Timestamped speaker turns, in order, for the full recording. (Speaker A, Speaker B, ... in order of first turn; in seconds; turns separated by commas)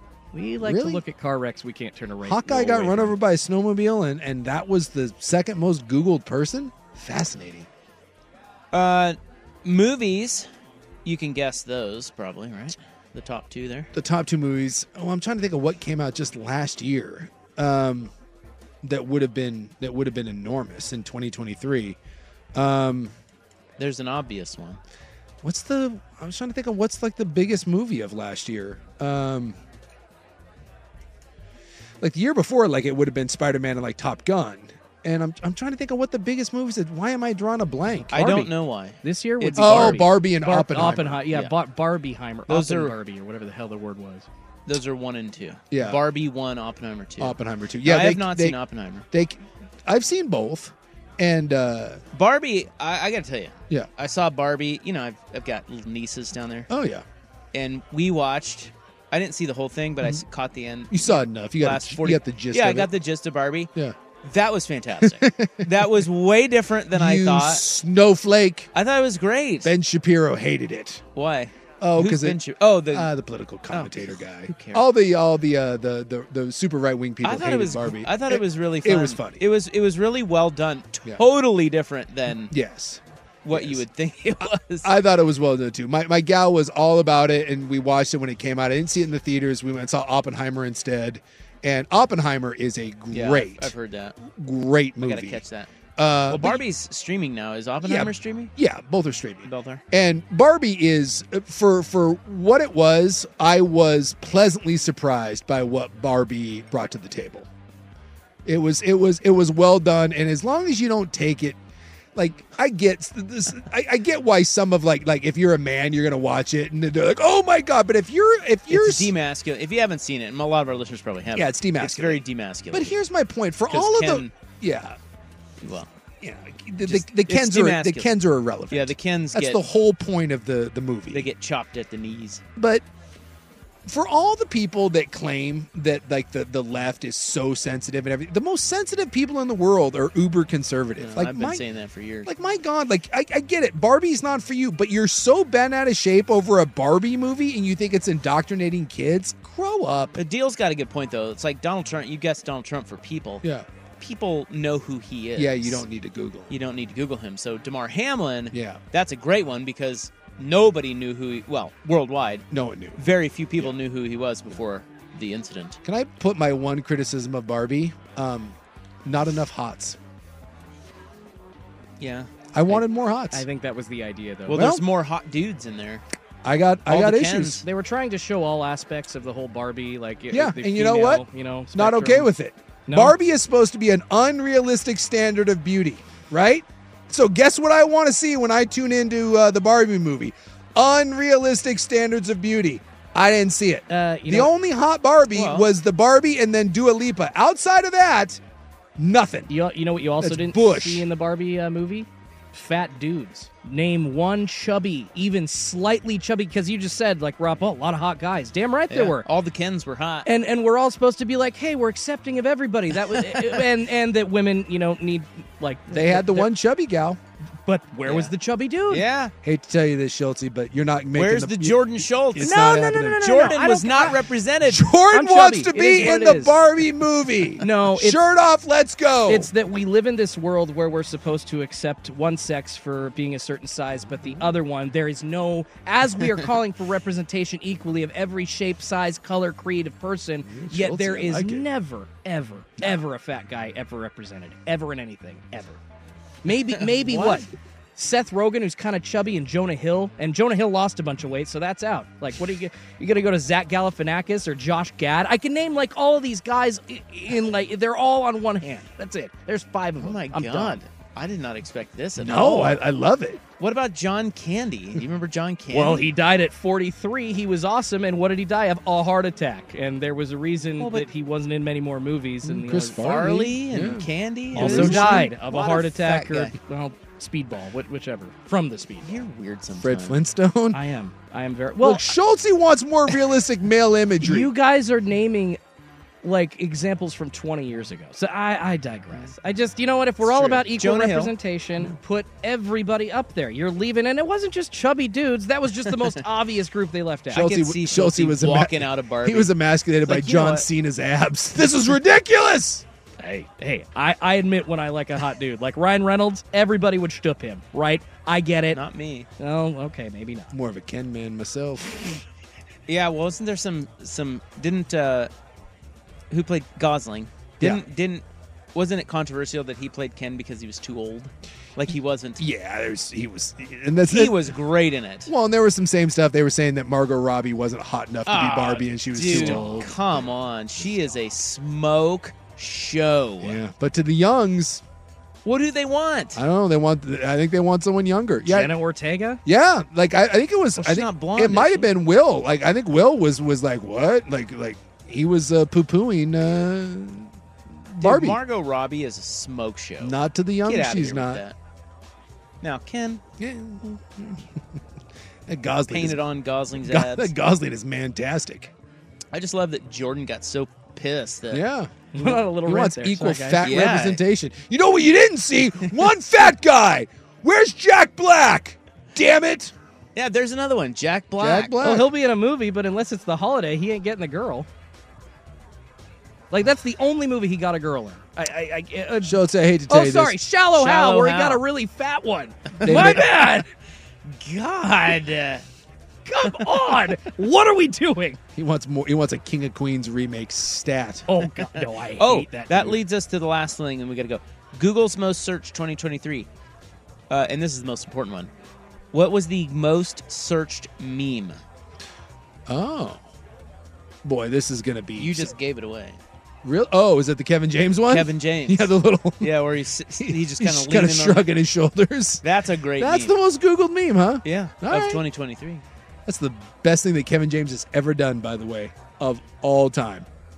Speaker A: 0.3-3.2, Speaker B: 0.6-1.0, Speaker B: 2.2-7.7, Speaker C: 8.7-10.5, Speaker C: 11.0-13.9, Speaker B: 13.9-18.1, Speaker B: 18.8-22.0, Speaker B: 22.5-23.1, Speaker C: 23.8-24.8, Speaker B: 25.4-29.6, Speaker B: 32.0-38.5, Speaker C: 38.1-40.1, Speaker A: 39.0-44.3, Speaker B: 39.6-41.3, Speaker C: 41.3-41.6, Speaker C: 42.5-43.0, Speaker C: 44.6-49.0, Speaker B: 45.7-46.0, Speaker B: 47.2-48.6, Speaker B: 49.1-52.0, Speaker C: 52.1-56.7, Speaker B: 56.7-57.0, Speaker C: 57.5-63.7, Speaker B: 60.9-62.9, Speaker C: 64.2-67.6, Speaker B: 65.0-65.8, Speaker B: 66.9-68.7, Speaker C: 68.7-69.7, Speaker B: 69.6-71.0, Speaker C: 71.1-73.1, Speaker B: 71.8-79.4, Speaker C: 73.7-74.9, Speaker C: 77.2-82.5, Speaker B: 82.5-83.8, Speaker C: 83.4-84.9, Speaker B: 84.8-93.7, Speaker C: 93.1-94.2, Speaker B: 94.3-95.4, Speaker C: 95.0-95.7, Speaker B: 96.0-96.6, Speaker C: 96.2-98.5, Speaker B: 97.8-107.5, Speaker C: 99.4-99.8, Speaker B: 108.5-111.6, Speaker B: 112.1-119.1, Speaker C: 118.7-123.0, Speaker B: 121.3-125.0, Speaker C: 123.7-124.3, Speaker C: 125.6-125.9, Speaker B: 126.2-131.3, Speaker C: 126.8-129.6, Speaker C: 131.1-132.4, Speaker B: 132.6-132.8, Speaker B: 133.8-141.6, Speaker C: 141.0-142.3, Speaker B: 142.2-150.2, Speaker C: 150.2-153.4, Speaker B: 153.4-153.7, Speaker C: 154.0-155.8, Speaker B: 155.3-156.5, Speaker C: 156.5-162.4, Speaker B: 158.5-158.8, Speaker B: 162.5-163.0, Speaker C: 163.0-165.8, Speaker B: 165.8-170.0, Speaker C: 172.0-172.8, Speaker B: 172.5-173.4, Speaker A: 173.3-174.7, Speaker C: 174.5-176.0, Speaker B: 174.5-174.8, Speaker B: 176.4-177.6, Speaker C: 176.9-177.6, Speaker A: 177.6-182.3, Speaker B: 180.3-198.4, Speaker A: 182.8-183.2, Speaker A: 193.9-194.5, Speaker C: 195.3-195.7, Speaker B: 199.0-199.5, Speaker A: 199.5-209.2, Speaker B: 200.2-201.1, Speaker C: 208.9-210.3, Speaker A: 210.2-216.5, Speaker C: 213.1-213.7, Speaker B: 215.9-217.2, Speaker A: 217.6-219.1, Speaker C: 218.0-218.3, Speaker C: 218.9-219.3, Speaker B: 219.4-223.5, Speaker C: 221.1-224.9, Speaker A: 222.4-224.2, Speaker B: 224.6-229.5, Speaker A: 225.1-226.6, Speaker A: 227.6-228.2, Speaker A: 229.3-245.8, Speaker B: 234.2-234.6, Speaker B: 240.4-241.7, Speaker A: 246.4-260.8, Speaker C: 246.8-247.4, Speaker C: 260.0-262.8, Speaker B: 262.2-263.4, Speaker C: 263.6-266.1, Speaker A: 265.7-273.2, Speaker C: 270.8-271.1, Speaker B: 272.4-275.4, Speaker C: 273.0-276.5, Speaker A: 274.5-279.2, Speaker C: 279.0-280.2, Speaker B: 279.8-280.8, Speaker A: 280.7-282.2, Speaker B: 281.8-284.5, Speaker A: 284.2-285.6, Speaker A: 286.2-297.5, Speaker C: 290.2-291.9, Speaker C: 295.8-296.2, Speaker C: 297.3-300.6, Speaker B: 297.3-302.8, Speaker A: 303.2-308.8, Speaker C: 308.7-309.3, Speaker A: 309.4-310.5, Speaker B: 310.5-312.0, Speaker C: 312.9-315.3, Speaker C: 316.3-322.5, Speaker B: 322.4-324.4, Speaker C: 324.0-325.3, Speaker B: 325.3-330.0, Speaker C: 328.2-333.6, Speaker A: 329.3-329.8, Speaker B: 333.4-334.8, Speaker C: 335.4-336.4, Speaker B: 336.4-338.7, Speaker A: 338.4-339.4, Speaker B: 339.4-347.3, Speaker C: 340.8-341.9, Speaker B: 347.9-348.4, Speaker C: 348.0-351.5, Speaker B: 350.0-351.4, Speaker C: 352.6-353.2, Speaker B: 353.4-354.5, Speaker B: 355.5-356.2, Speaker C: 355.9-357.3, Speaker B: 356.8-358.7, Speaker C: 359.3-361.6, Speaker B: 361.5-369.7, Speaker A: 362.1-363.8, Speaker C: 363.6-364.2, Speaker C: 370.1-371.8, Speaker B: 371.4-372.1, Speaker A: 371.8-374.7, Speaker A: 376.5-383.7, Speaker B: 379.2-380.4, Speaker C: 380.7-381.6, Speaker C: 382.8-383.6, Speaker B: 382.8-383.2, Speaker C: 384.3-385.6, Speaker A: 386.2-388.4, Speaker C: 386.4-387.1, Speaker B: 388.6-391.3, Speaker A: 391.3-392.9, Speaker C: 391.6-396.5, Speaker C: 397.3-398.5, Speaker C: 399.1-401.6, Speaker B: 402.7-403.2, Speaker B: 404.2-405.5, Speaker C: 405.2-406.2, Speaker B: 406.6-409.6, Speaker C: 408.1-411.5, Speaker B: 410.2-412.4, Speaker C: 412.4-413.4, Speaker B: 413.0-415.2, Speaker C: 414.4-415.8, Speaker B: 416.2-420.3